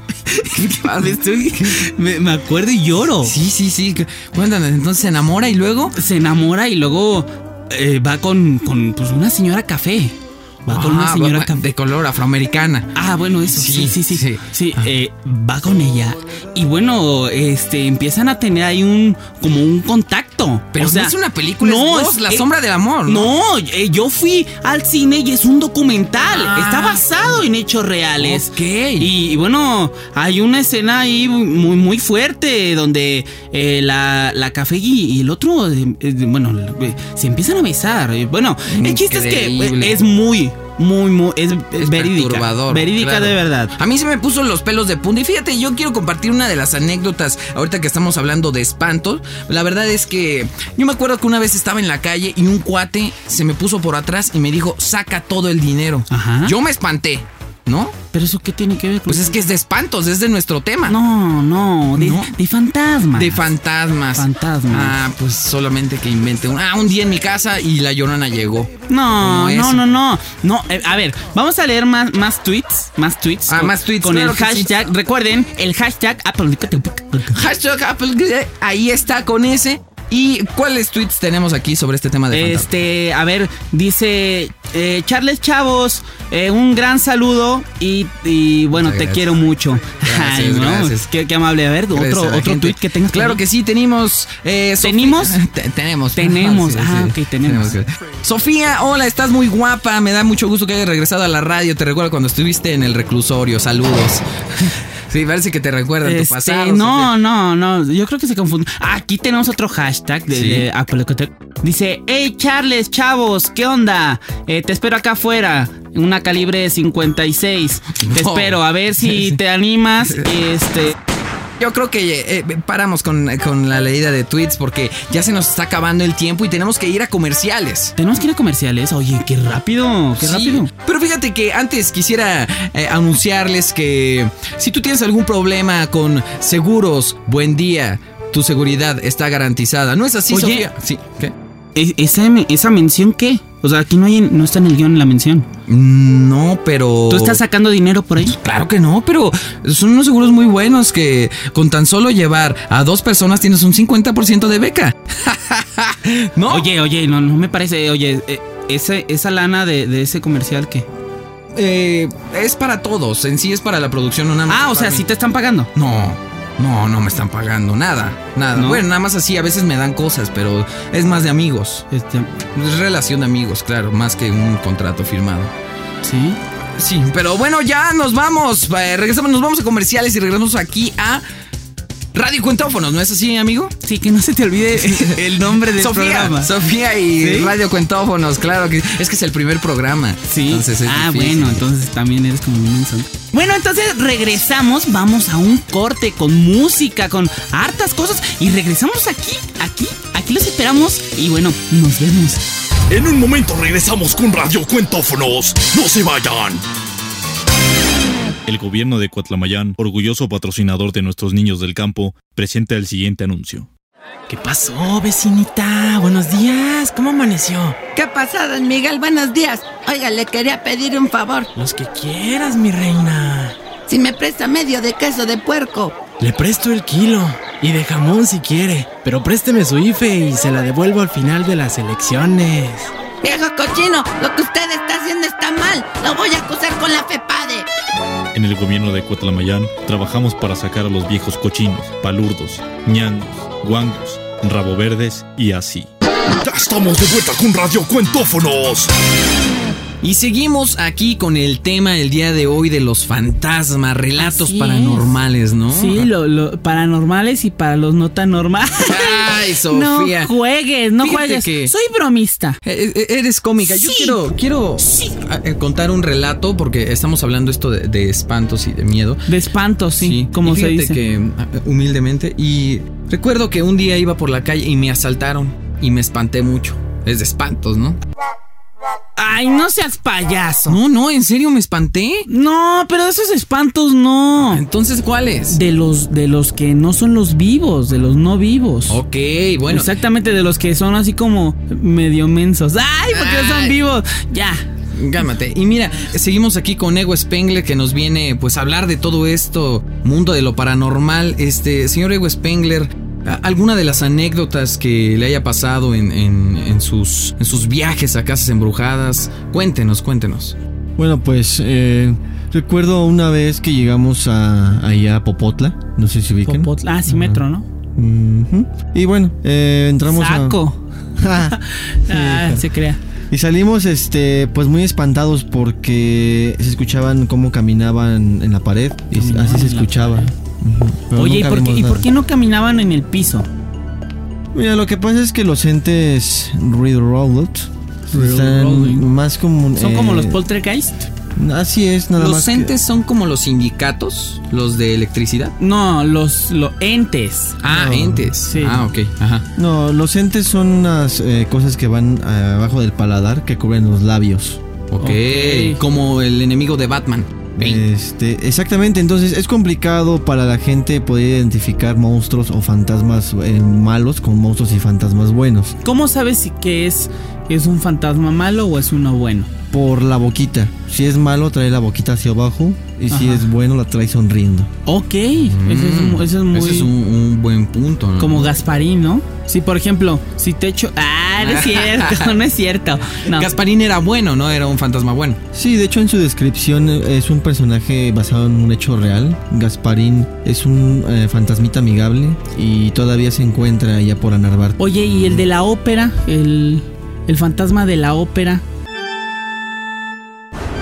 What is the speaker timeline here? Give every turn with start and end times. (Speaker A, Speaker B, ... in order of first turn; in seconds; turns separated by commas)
Speaker A: 0.3-3.4, Speaker B: 0.6-1.9, Speaker B: 3.2-6.0, Speaker A: 6.0-11.6, Speaker B: 10.7-12.9, Speaker A: 12.9-22.5, Speaker B: 13.5-14.9, Speaker B: 20.7-23.3, Speaker A: 23.1-43.7, Speaker B: 26.3-27.4, Speaker B: 28.2-29.1, Speaker B: 38.7-40.0, Speaker B: 41.8-58.0, Speaker A: 56.1-56.5, Speaker A: 58.1-59.3, Speaker B: 59.1-61.0, Speaker A: 60.9-63.4, Speaker B: 61.9-62.3, Speaker B: 63.1-69.9, Speaker A: 64.2-65.0, Speaker A: 68.9-77.4, Speaker B: 73.5-74.9, Speaker B: 77.3-82.7, Speaker A: 82.3-93.4, Speaker B: 88.7-89.4, Speaker B: 90.0-91.1, Speaker B: 91.9-107.1, Speaker A: 94.8-95.4, Speaker A: 96.2-97.8, Speaker A: 106.0-121.0, Speaker B: 110.3-110.7, Speaker B: 118.0-119.4, Speaker B: 120.0-120.3, Speaker B: 121.6-127.9, Speaker A: 128.0-130.7, Speaker B: 130.2-141.3, Speaker A: 140.3-140.7, Speaker A: 141.8-145.5, Speaker B: 145.7-147.4, Speaker A: 147.1-148.4, Speaker B: 148.3-156.7, Speaker A: 156.5-160.9, Speaker B: 161.5-165.1, Speaker A: 164.5-165.7, Speaker B: 165.8-171.9, Speaker A: 168.6-168.8, Speaker A: 171.9-172.3, Speaker B: 172.5-175.5, Speaker A: 176.0-176.4, Speaker B: 176.8-181.2, Speaker B: 182.1-183.7, Speaker A: 183.8-186.5, Speaker B: 184.8-191.6, Speaker A: 187.2-187.5, Speaker A: 190.3-202.4, Speaker C: 202.9-206.6, Speaker D: 208.5-213.7, Speaker E: 214.3-217.8, Speaker F: 217.9-221.5, Speaker E: 221.6-223.6, Speaker F: 223.9-226.0, Speaker E: 226.2-232.9, Speaker F: 233.2-237.7, Speaker D: 238.3-245.9, Speaker C: 246.4-248.9, Speaker B: 250.0-256.1, Speaker A: 254.2-255.0, Speaker A: 255.7-262.6, Speaker B: 258.9-260.3, Speaker B: 261.0-261.7, Speaker B: 262.6-269.2, Speaker A: 263.6-264.2, Speaker A: 264.8-265.1, Speaker A: 269.3-271.0, Speaker B: 270.0-278.0, Speaker A: 279.2-280.8, Speaker B: 280.7-282.3, Speaker A: 282.3-284.6, Speaker B: 284.5-285.6, Speaker A: 285.5-289.0, Speaker B: 288.9-289.9, Speaker A: 289.7-294.6, Speaker B: 293.1-293.8, Speaker B: 294.9-310.6, Speaker G: 311.0-317.4, Speaker A: 316.4-317.7, Speaker G: 317.9-320.6, Speaker A: 320.1-320.8, Speaker G: 321.2-322.7, Speaker A: 321.5-323.0, Speaker G: 323.3-332.1, Speaker A: 329.1-330.3, Speaker A: 331.1-333.5, Speaker G: 334.5-340.4, Speaker A: 338.1-339.1, Speaker A: 339.8-341.1, Speaker G: 341.4-342.7, Speaker B: 342.2-345.5, Speaker A: 345.6-347.6, Speaker B: 347.6-349.4, Speaker G: 347.7-348.3, Speaker A: 348.5-348.8, Speaker G: 349.6-354.6, Speaker B: 354.9-357.8, Speaker A: 355.0-355.8, Speaker G: 357.6-365.8, Speaker A: 365.8-369.5, Speaker G: 369.7-374.7, Speaker A: 373.1-373.4, Speaker A: 374.9-376.9, Speaker B: 375.5-378.5, Speaker A: 378.2-383.5, Speaker B: 381.4-382.4, Speaker B: 383.3-385.4, Speaker G: 385.5-395.4, Speaker A: 394.8-398.6